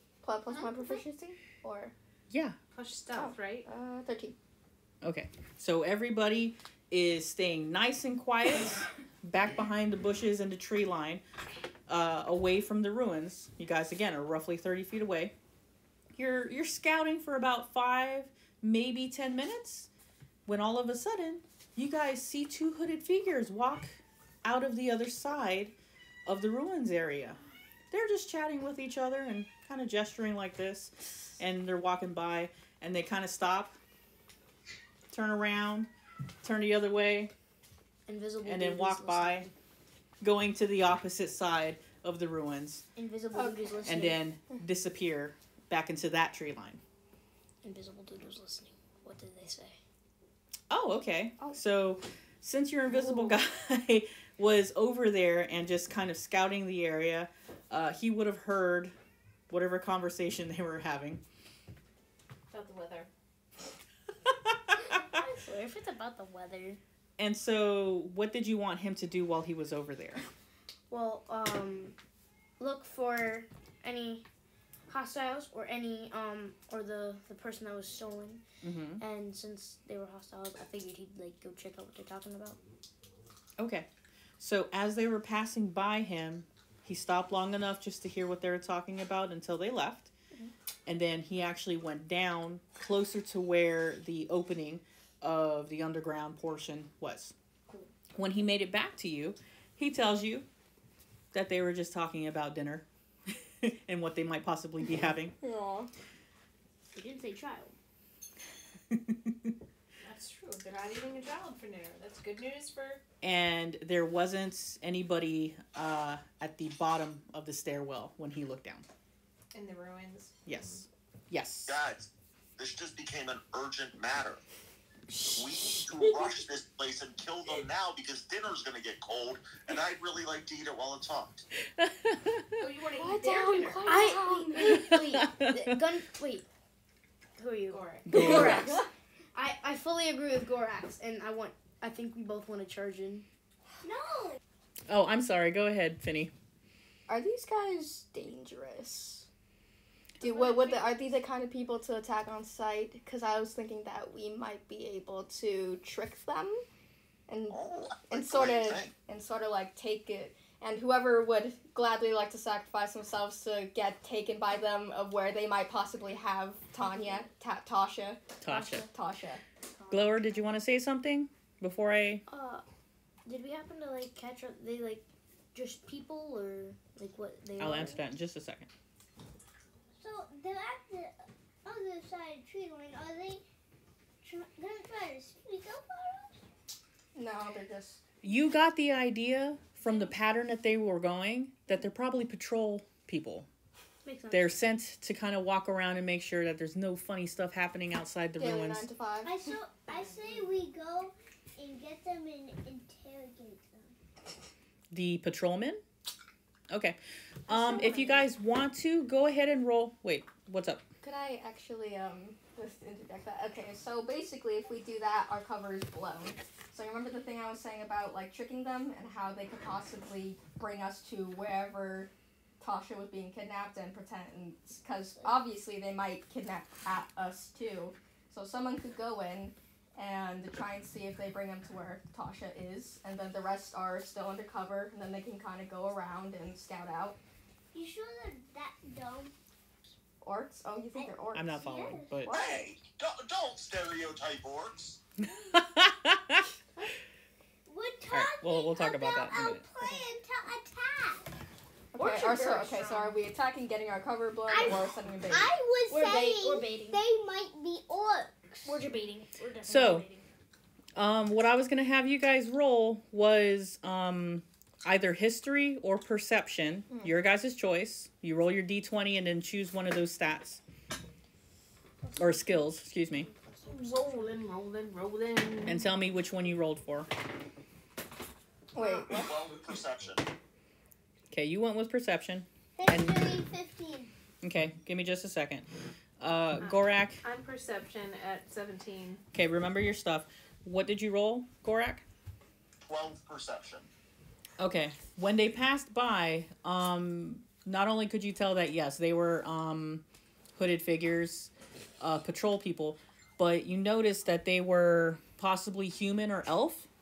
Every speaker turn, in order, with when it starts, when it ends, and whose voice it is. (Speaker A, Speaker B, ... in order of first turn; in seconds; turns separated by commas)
Speaker A: 0.2-1.9, Speaker B: 0.5-1.0, Speaker C: 2.3-2.6, Speaker D: 2.7-3.6, Speaker A: 3.1-4.3, Speaker C: 5.0-11.2, Speaker C: 11.9-15.3, Speaker C: 16.1-19.9, Speaker C: 20.4-25.7, Speaker C: 26.2-27.4, Speaker C: 27.9-33.7, Speaker C: 35.1-35.9, Speaker C: 36.4-37.3, Speaker E: 38.1-39.5, Speaker C: 38.4-39.5, Speaker C: 40.2-42.9, Speaker E: 43.0-44.2, Speaker A: 43.3-44.1, Speaker C: 43.9-46.8, Speaker E: 47.6-49.8, Speaker C: 50.7-58.9, Speaker A: 52.9-53.4, Speaker C: 59.5-61.2, Speaker D: 62.5-63.1, Speaker E: 64.8-66.8, Speaker C: 67.2-70.2, Speaker E: 70.9-71.9, Speaker E: 72.6-74.2, Speaker E: 74.9-78.4, Speaker C: 78.6-79.0, Speaker E: 79.0-82.6, Speaker C: 83.6-83.9, Speaker C: 84.4-90.1, Speaker C: 90.8-97.3, Speaker C: 98.1-100.5, Speaker C: 101.3-105.3, Speaker A: 105.4-105.9, Speaker E: 106.9-107.7, Speaker C: 108.9-109.5, Speaker D: 110.0-113.0, Speaker C: 113.2-118.8, Speaker D: 119.5-120.8, Speaker C: 120.5-121.8, Speaker F: 121.7-124.4, Speaker A: 125.1-126.1, Speaker F: 125.3-131.4, Speaker C: 131.8-132.5, Speaker D: 132.6-134.3, Speaker A: 133.0-134.8, Speaker E: 133.8-136.4, Speaker C: 134.6-135.7, Speaker E: 137.4-143.2, Speaker D: 137.7-138.1, Speaker C: 138.1-138.8, Speaker A: 138.1-138.9, Speaker B: 143.8-144.4, Speaker C: 144.9-146.3, Speaker A: 147.1-149.3, Speaker A: 150.2-156.6, Speaker E: 150.2-150.8, Speaker A: 157.3-168.2, Speaker F: 157.5-158.9, Speaker C: 168.4-168.9, Speaker E: 168.4-168.9, Speaker A: 168.8-169.4, Speaker E: 169.8-170.3, Speaker C: 169.9-172.2, Speaker E: 172.3-172.6, Speaker E: 173.2-178.0, Speaker C: 177.6-178.7, Speaker B: 180.0-183.4, Speaker B: 184.2-186.4, Speaker A: 187.1-188.0, Speaker C: 188.2-193.5, Speaker E: 194.0-194.5, Speaker C: 194.3-198.9, Speaker A: 198.3-199.3, Speaker B: 199.2-203.9, Speaker D: 199.9-200.5, Speaker C: 204.9-205.8, Speaker C: 206.7-207.0, Speaker C: 207.5-210.8, Speaker E: 207.5-208.2, Speaker A: 211.0-237.2, Speaker B: 237.7-239.3, Speaker A: 240.2-241.7, Speaker B: 240.9-242.2, Speaker C: 241.3-242.3, Speaker A: 242.3-242.7, Speaker F: 242.3-245.0, Speaker C: 245.3-246.4, Speaker B: 247.7-251.2, Speaker C: 248.1-249.6, Speaker A: 251.9-255.5, Speaker E: 252.0-253.2, Speaker B: 254.5-258.8, Speaker E: 255.9-257.0, Speaker E: 258.6-260.2, Speaker C: 259.6-260.0, Speaker C: 260.9-270.6, Speaker E: 272.1-272.4, Speaker C: 272.2-273.3, Speaker E: 273.4-274.2, Speaker D: 273.7-275.9, Speaker C: 275.6-277.1, Speaker A: 278.7-279.3, Speaker F: 279.1-280.2, Speaker C: 281.3-283.4, Speaker B: 282.8-284.1, Speaker C: 284.4-285.6, Speaker C: 286.2-287.2, Speaker D: 286.6-289.2, Speaker C: 289.3-292.0, Speaker F: 292.8-293.9, Speaker C: 294.6-300.0, Speaker C: 300.6-306.9